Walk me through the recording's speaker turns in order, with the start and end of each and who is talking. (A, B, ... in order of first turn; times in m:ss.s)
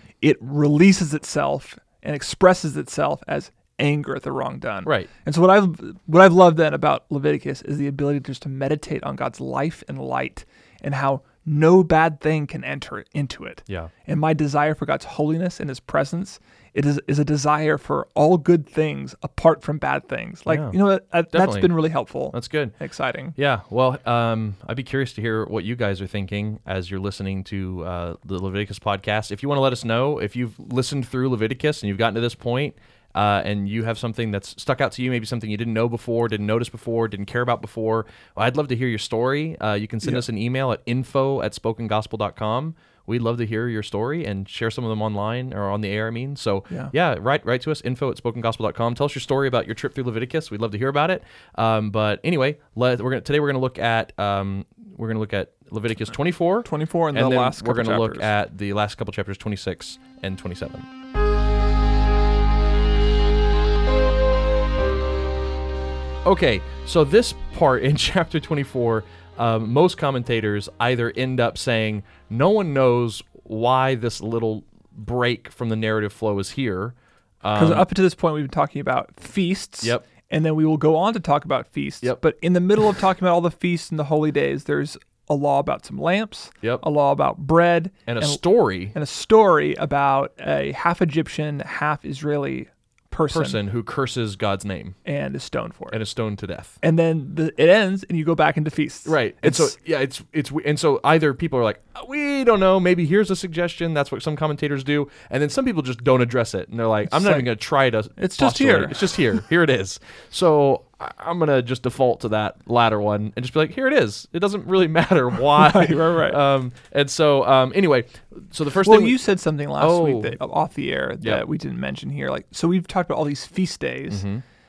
0:00.2-0:23.3 A
0:20.5-0:20.8 B
0:21.3-0:21.7 B
0:22.3-0:22.8 B
0:23.4-1:00.9 B
0:56.6-0:58.3 A
1:06.2-1:17.9 B
1:17.5-1:33.6 A
1:28.1-1:29.0 B
1:33.3-1:35.0 B
1:35.0-1:36.0 A
1:35.9-1:36.8 B
1:36.8-1:39.7 A
1:39.0-1:59.2 B
1:47.1-1:47.5 A
1:48.2-1:49.4 A
1:55.5-1:56.4 A
1:58.8-2:04.2 A
1:59.8-2:00.4 B
2:04.1-2:04.4 B